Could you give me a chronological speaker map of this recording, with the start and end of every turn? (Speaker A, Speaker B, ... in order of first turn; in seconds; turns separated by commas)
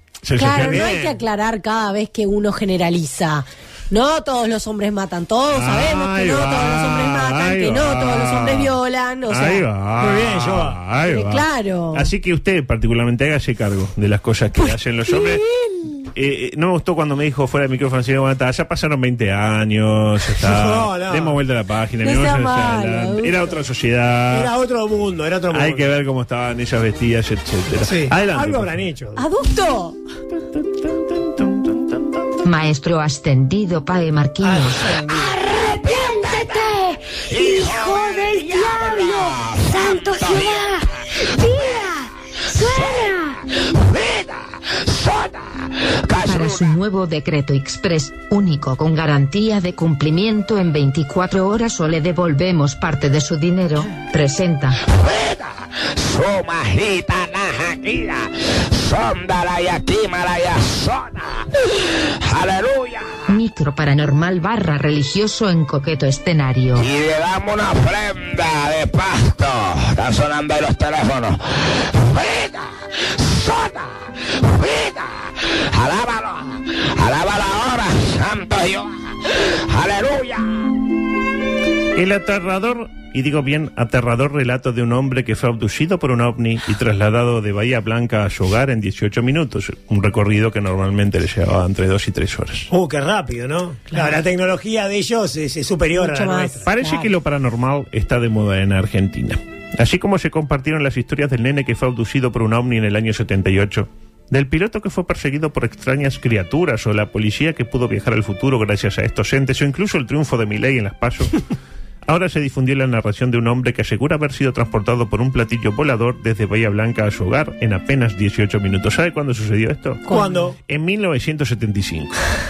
Speaker A: 0.2-1.1, Speaker B: 0.3-9.7, Speaker A: 5.5-8.7, Speaker A: 9.3-15.4, Speaker C: 10.0-10.8, Speaker B: 11.1-12.1, Speaker B: 14.6-16.0, Speaker A: 16.1-24.5, Speaker C: 20.4-21.4, Speaker B: 22.0-23.4, Speaker C: 24.3-25.9, Speaker A: 25.5-28.8, Speaker C: 27.8-29.2, Speaker B: 29.2-30.0, Speaker A: 30.4-32.2, Speaker D: 32.4-34.8, Speaker C: 34.4-35.3, Speaker B: 35.1-43.4, Speaker E: 35.4-36.7, Speaker E: 37.3-40.8, Speaker E: 42.5-46.6, Speaker D: 46.2-54.8, Speaker E: 54.9-61.4, Speaker E: 62.2-63.1, Speaker D: 63.3-66.8, Speaker E: 66.8-80.6, Speaker A: 81.9-92.7, Speaker C: 92.7-96.6, Speaker B: 95.9-97.1, Speaker A: 96.7-111.4, Speaker A: 112.1-120.1, Speaker B: 120.1-120.5, Speaker C: 120.1-120.6, Speaker A: 120.7-122.2